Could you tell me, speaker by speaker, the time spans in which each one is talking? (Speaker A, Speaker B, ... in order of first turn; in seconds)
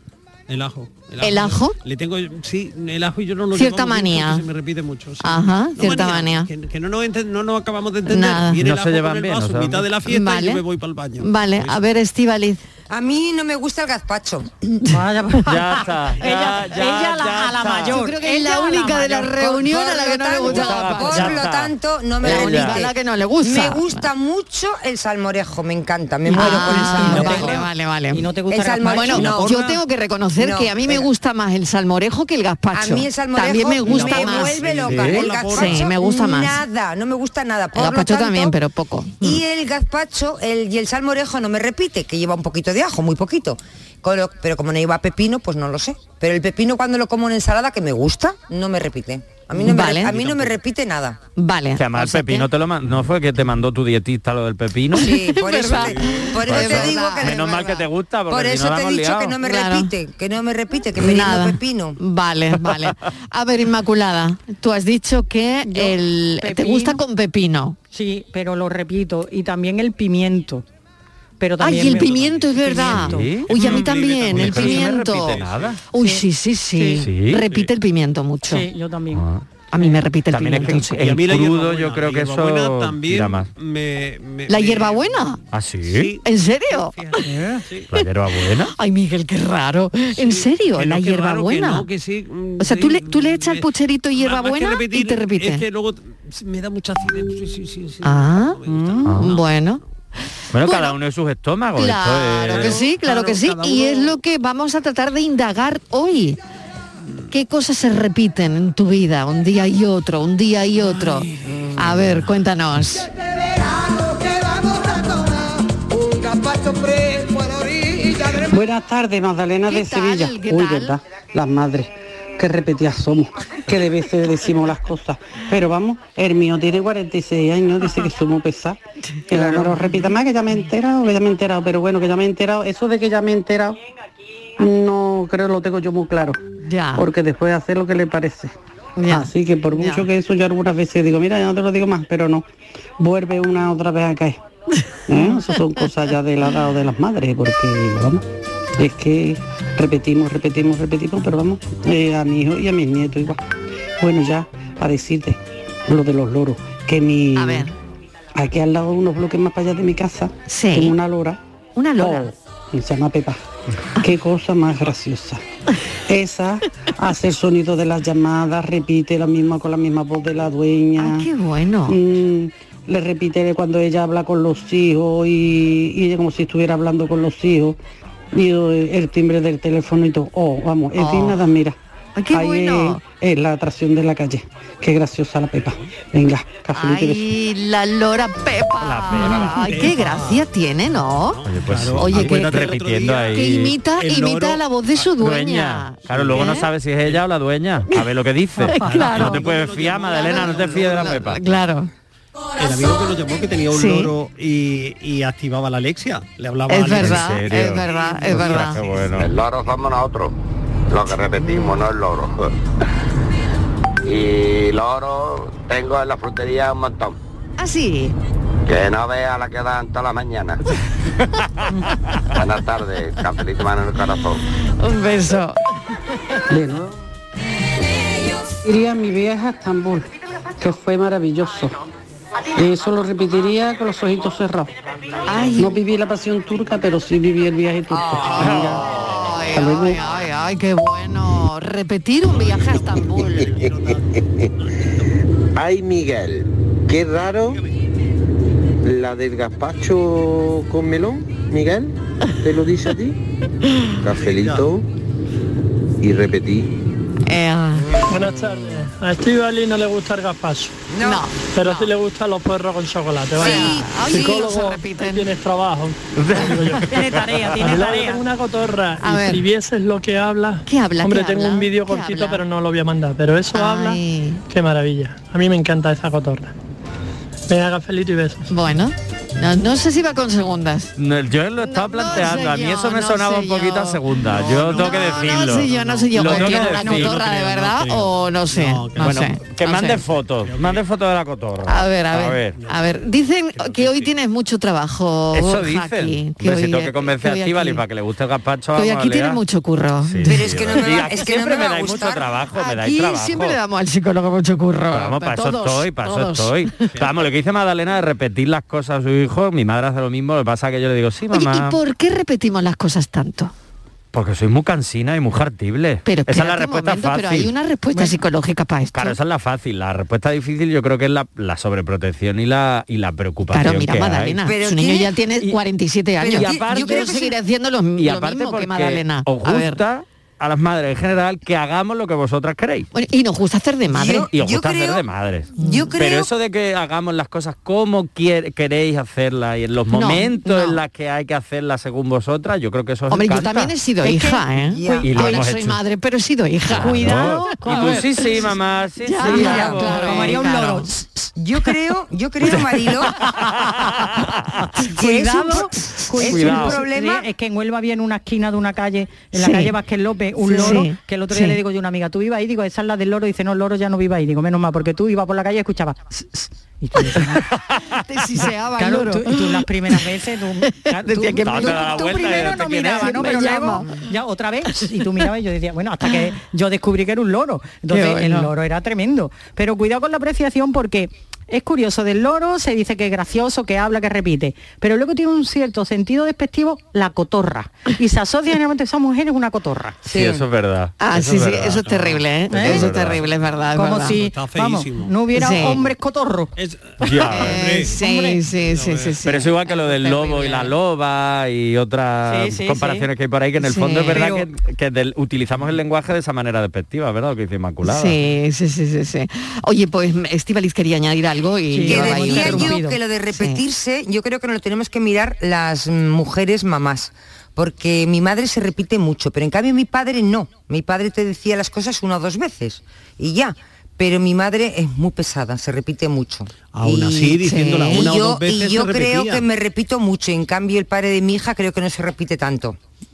Speaker A: 0.5-11.8, 29.2-29.8, 33.8-35.9, 50.2-50.5, 55.8-56.2, 73.4-75.8, 81.0-87.9, 90.1-99.7, 102.4-104.2, 111.1-111.6, 189.2-190.5, 191.2-194.6, 196.1-197.2, 198.6-201.4, 202.6-209.1, 242.3-244.0, 254.1-254.7, 284.3-289.3, 290.4-290.8, 292.5-294.1, 306.9-307.3, 394.1-395.9, 396.6-399.2, 426.7-429.4
Speaker B: 1.2-1.8, 3.5-4.4, 5.2-6.5, 8.1-8.6, 10.1-10.6, 11.2-12.6, 17.9-21.4, 22.2-24.1, 26.3-28.2, 28.9-34.8, 35.4-36.6, 37.7-39.4, 49.6-50.2, 51.4-52.5, 55.0-57.3, 59.4-59.9, 61.0-67.8, 71.6-75.4, 75.9-78.6, 79.7-81.0, 84.5-85.4, 86.2-87.0, 88.7-91.9, 92.6-95.6, 98.0-99.8, 100.6-100.9, 101.8-106.4, 107.3-113.1, 119.7-121.0, 129.1-130.1, 136.6-137.1, 139.0-140.1, 145.2-145.5, 157.3-157.7, 160.5-160.9, 161.8-162.3, 171.0-172.0, 180.9-181.4, 182.2-183.0, 186.7-191.4, 192.0-192.6, 193.3-196.7, 198.7-199.4, 200.1-201.9, 203.7-204.1, 206.7-208.8, 217.6-218.1, 224.8-225.6, 235.3-235.8, 238.2-243.5, 257.3-258.0, 261.0-261.9, 263.4-265.3, 269.0-269.4, 270.6-272.4, 273.5-274.4, 278.5-280.9, 281.6-290.0, 291.7-297.8, 298.8-300.5, 302.5-306.8, 311.3-313.5, 316.0-319.2, 323.5-329.8, 332.9-334.3, 335.6-335.9, 339.9-340.8, 343.1-348.2, 349.0-350.9, 359.4-359.7, 360.4-361.6, 368.1-369.6, 370.8-374.0, 377.9-378.5, 391.0-394.2, 395.3-395.8, 397.2-400.7, 403.6-404.2, 407.8-412.8, 413.3-413.6, 427.4-428.1
Speaker C: 8.6-9.8, 15.4-18.0, 20.4-22.8, 34.9-35.2, 51.8-55.2, 56.5-59.4, 72.9-75.8, 77.0-77.6, 79.1-79.4, 80.3-83.5, 85.5-86.1, 87.9-88.7, 99.0-99.3, 100.5-102.8, 188.8-189.7, 191.4-193.8, 195.2-201.4, 206.9-209.3, 266.2-266.9, 281.0-287.2, 289.0-292.6, 295.3-299.4, 300.0-303.6, 304.9-311.8, 314.1-317.5, 318.9-324.4, 326.3-327.1, 328.0-332.9, 334.3-343.7, 345.0-345.8, 346.7-350.4, 352.4-352.9, 353.8-354.3, 356.2-356.9, 371.1-373.5, 390.1-393.2, 397.0-397.6, 399.2-408.2
Speaker D: 12.9-14.9, 19.2-27.6, 28.5-29.6, 30.4-31.1, 32.7-38.5, 39.2-51.2, 55.0-62.0, 237.9-238.5, 260.9-261.2, 263.4-264.5, 300.2-302.2, 324.4-325.1, 326.2-327.3, 333.9-335.0, 335.6-336.3, 344.7-345.1, 349.2-350.7, 351.3-353.2, 354.8-357.3, 390.0-390.4, 411.9-427.4, 427.9-432.8
Speaker E: 14.9-19.4, 26.3-29.4, 65.7-67.0, 67.9-70.6, 71.4-73.3, 76.0-77.0, 78.4-80.0, 87.2-87.6, 98.7-99.0, 266.8-268.2, 286.4-286.8, 344.0-345.4, 346.7-348.5, 349.2-351.0, 354.8-367.5, 368.8-390.0, 392.5-392.9, 393.7-396.5, 397.9-398.4, 400.3-400.5, 402.2-403.1, 404.1-404.4, 411.7-413.0
Speaker F: 113.2-118.5
Speaker G: 118.5-128.8, 129.3-133.8, 134.6-136.4, 136.9-138.5, 139.1-142.4, 143.0-144.4, 145.1-148.2, 148.8-153.4, 154.0-157.7, 158.3-161.4, 162.0-163.4, 164.0-165.4, 166.1-171.3, 171.9-177.8, 178.3-181.8, 182.3-187.3, 226.5-226.9, 228.6-230.1, 230.6-231.8, 232.5-234.7, 235.5-238.8, 239.5-240.0
Speaker H: 209.2-210.3, 210.9-212.5, 214.1-217.2, 218.7-220.6, 222.3-224.4
Speaker I: 245.5-247.6, 248.8-253.2, 254.0-254.8, 256.0-256.7
Speaker J: 258.1-260.8, 261.5-267.0, 267.6-276.5, 277.5-278.5